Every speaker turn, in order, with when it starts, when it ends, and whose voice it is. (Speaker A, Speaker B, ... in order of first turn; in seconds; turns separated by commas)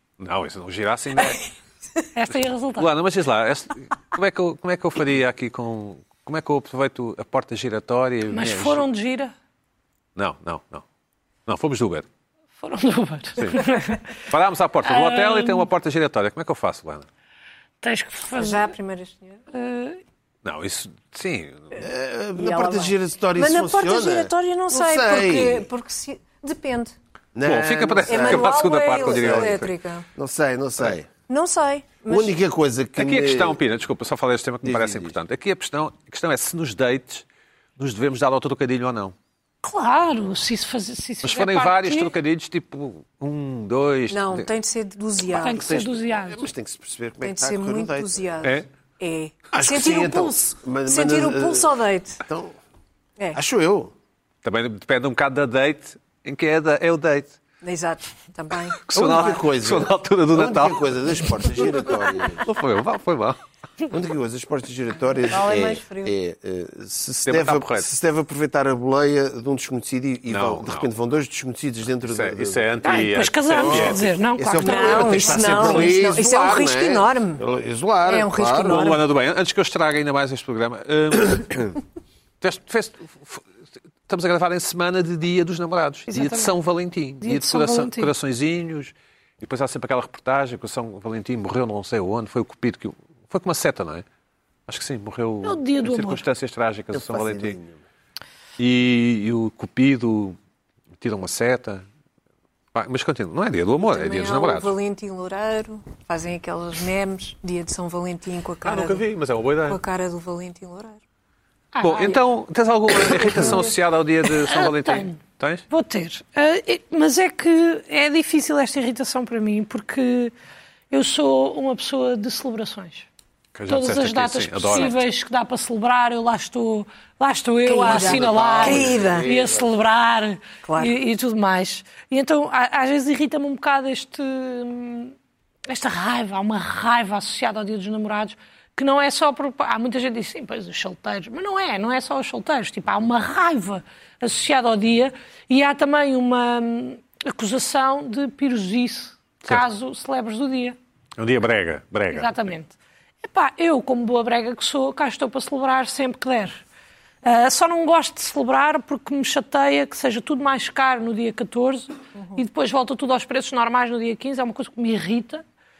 Speaker A: 0.2-1.4, Speaker B: 2.1-2.9, Speaker A: 2.8-8.9, Speaker B: 8.3-9.3, Speaker A: 10.2-10.8, Speaker A: 11.5-12.1, Speaker B: 12.6-14.1, Speaker A: 13.4-13.7, Speaker A: 14.3-17.1, Speaker B: 14.8-15.7, Speaker B: 17.8-18.7, Speaker C: 18.4-19.4, Speaker B: 19.5-20.0, Speaker A: 20.4-21.7, Speaker D: 21.8-25.7, Speaker C: 22.4-26.9, Speaker D: 27.4-29.6, Speaker A: 27.4-29.7, Speaker C: 28.1-30.1, Speaker D: 30.1-31.1, Speaker C: 31.3-32.3, Speaker D: 32.1-33.6, Speaker A: 33.0-37.2, Speaker D: 34.6-35.2, Speaker A: 37.8-39.1, Speaker B: 39.6-42.1, Speaker A: 41.2-44.5, Speaker C: 44.1-45.7, Speaker B: 45.3-46.5, Speaker D: 45.3-48.4, Speaker C: 47.2-52.2, Speaker D: 49.5-52.6, Speaker D: 53.3-53.9, Speaker A: 54.4-57.4, Speaker C: 57.6-59.4, Speaker A: 58.8-61.4, Speaker D: 58.9-62.5, Speaker A: 62.5-63.4, Speaker D: 63.9-72.8, Speaker C: 65.3-66.1, Speaker A: 67.3-67.9, Speaker A: 70.3-70.9, Speaker A: 72.1-74.1, Speaker B: 72.8-75.9, Speaker D: 73.6-78.9, Speaker C: 74.6-77.4, Speaker C: 78.1-79.0, Speaker A: 78.7-81.8, Speaker A: 82.4-83.4, Speaker A: 84.1-94.0, Speaker B: 86.1-86.5, Speaker B: 87.2-88.1, Speaker A: 94.7-97.6, Speaker B: 95.4-96.2, Speaker D: 96.9-97.8, Speaker A: 98.6-100.4, Speaker A: 101.0-101.8, Speaker A: 102.7-104.8, Speaker C: 103.8-109.0, Speaker A: 108.6-109.8, Speaker C: 109.7-111.0, Speaker B: 111.7-112.2, Speaker A: 111.8-115.7, Speaker C: 113.1-113.8, Speaker B: 114.4-120.3, Speaker B: 120.9-123.1, Speaker A: 123.5-125.0, Speaker B: 123.7-135.2, Speaker C: 127.7-129.3, Speaker D: 127.8-129.7, Speaker C: 130.6-130.9, Speaker B: 135.7-150.8, Speaker A: 151.2-152.4, Speaker B: 152.1-156.6, Speaker B: 157.2-165.4